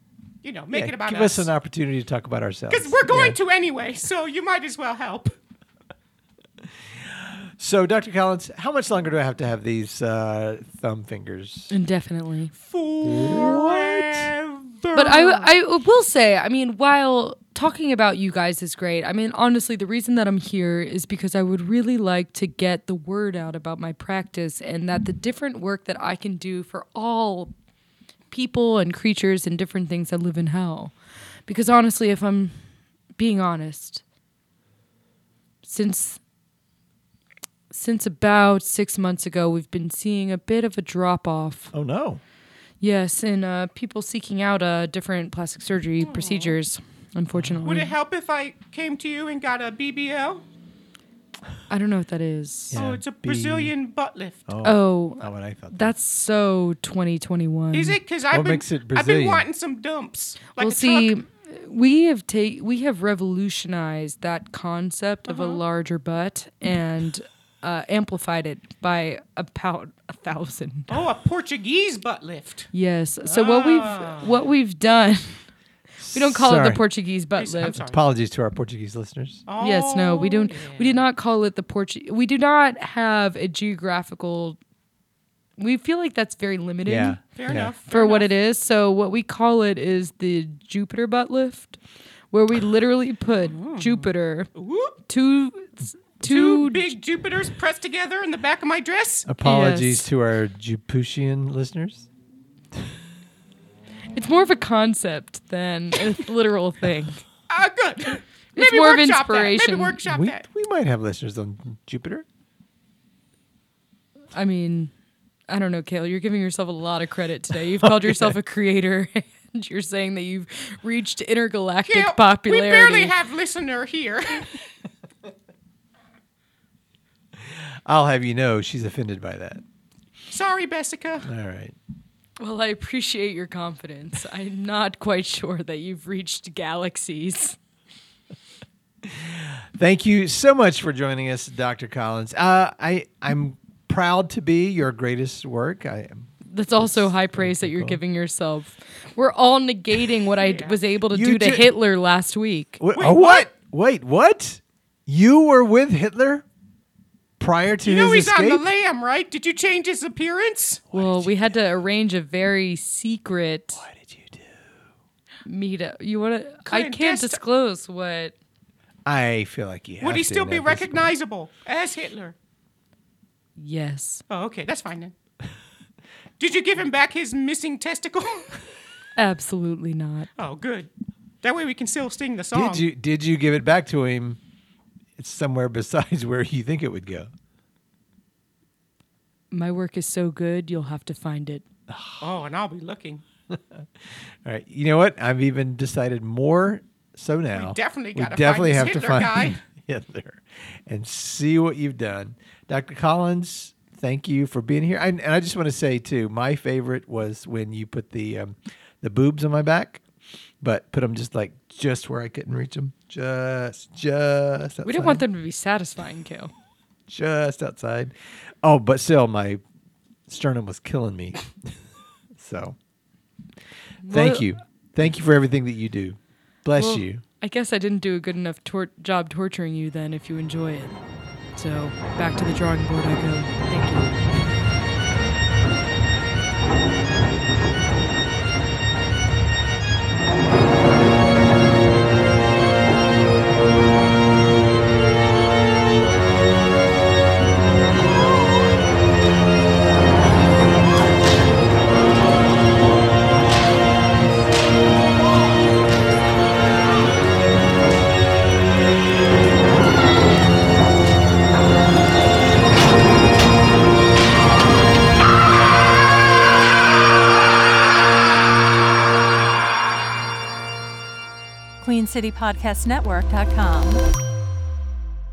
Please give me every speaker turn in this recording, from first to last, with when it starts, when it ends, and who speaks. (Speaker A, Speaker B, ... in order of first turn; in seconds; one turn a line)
Speaker A: 0.4-1.5
Speaker B: 0.7-3.4
Speaker A: 2.7-5.3
Speaker B: 7.0-11.7
Speaker C: 11.7-12.5
Speaker A: 12.5-15.5
Speaker B: 13.0-14.3
Speaker C: 14.9-27.5
Speaker C: 28.3-30.9
Speaker C: 31.5-32.6
Speaker C: 33.1-34.0
Speaker C: 35.6-36.2
Speaker C: 37.7-41.7
Speaker B: 41.7-42.2
Speaker C: 42.8-47.9
Speaker A: 46.0-46.6
Speaker B: 47.3-47.6
Speaker A: 47.6-50.4
Speaker C: 51.7-52.8
Speaker B: 52.7-53.7
Speaker A: 52.7-54.4
Speaker B: 54.5-55.9
Speaker C: 54.6-58.0
Speaker A: 57.7-61.1
Speaker B: 58.3-59.5
Speaker C: 60.6-70.9
Speaker A: 65.3-65.6
Speaker A: 70.9-72.7
Speaker C: 72.7-75.4
Speaker A: 73.3-74.3
Speaker B: 76.0-76.8
Speaker C: 76.1-77.8
Speaker A: 77.4-78.0
Speaker B: 77.7-79.4
Speaker A: 79.5-81.0
Speaker C: 79.6-84.6
Speaker C: 85.6-87.2
Speaker B: 86.8-87.7
Speaker A: 87.3-88.3
Speaker C: 87.9-91.8
Speaker C: 92.3-94.5
Speaker A: 93.5-95.0
Speaker C: 95.1-96.9
Speaker A: 96.2-99.3
Speaker B: 99.2-102.1
Speaker C: 99.4-100.0
Speaker C: 104.1-107.2
Speaker A: 107.5-110.4
Speaker C: 108.5-110.0
Speaker B: 110.0-112.2
Speaker C: 114.3-114.9
Speaker C: 115.5-123.1
Speaker B: 117.8-118.3
Speaker A: 121.9-124.5
Speaker B: 127.3-129.6
Speaker A: 130.3-131.3
Speaker B: 131.2-131.8
Speaker C: 132.4-137.6
Speaker B: 139.0-148.0
Speaker C: 146.4-152.8
Speaker A: 150.4-150.8
Speaker B: 151.1-151.7
Speaker B: 152.8-156.4
Speaker A: 152.9-153.5
Speaker B: 157.4-158.6
Speaker A: 157.8-160.8
Speaker B: 160.9-161.6
Speaker C: 160.9-163.8
Speaker B: 163.7-164.8
Speaker C: 165.4-168.3
Speaker A: 166.7-167.4
Speaker B: 169.1-171.1
Speaker A: 170.0-172.3
Speaker C: 173.6-174.2
Speaker A: 174.3-175.1
Speaker A: 176.4-178.6
Speaker C: 179.2-180.3
Speaker A: 180.4-180.9
Speaker A: 181.4-182.8
Speaker B: 182.5-184.4
Speaker B: 185.2-187.3
Speaker C: 189.5-191.6
Speaker B: 191.9-192.2
Speaker A: 192.2-193.2
Speaker B: 193.5-210.0
Speaker A: 197.5-199.6
Speaker B: 210.6-215.2
Speaker C: 214.8-216.5
Speaker B: 217.1-219.6
Speaker B: 220.3-221.5
Speaker B: 222.3-222.8
Speaker C: 224.0-224.4
Speaker B: 224.1-227.2
Speaker C: 226.7-231.0
Speaker C: 231.6-234.2
Speaker D: 271.8-274.0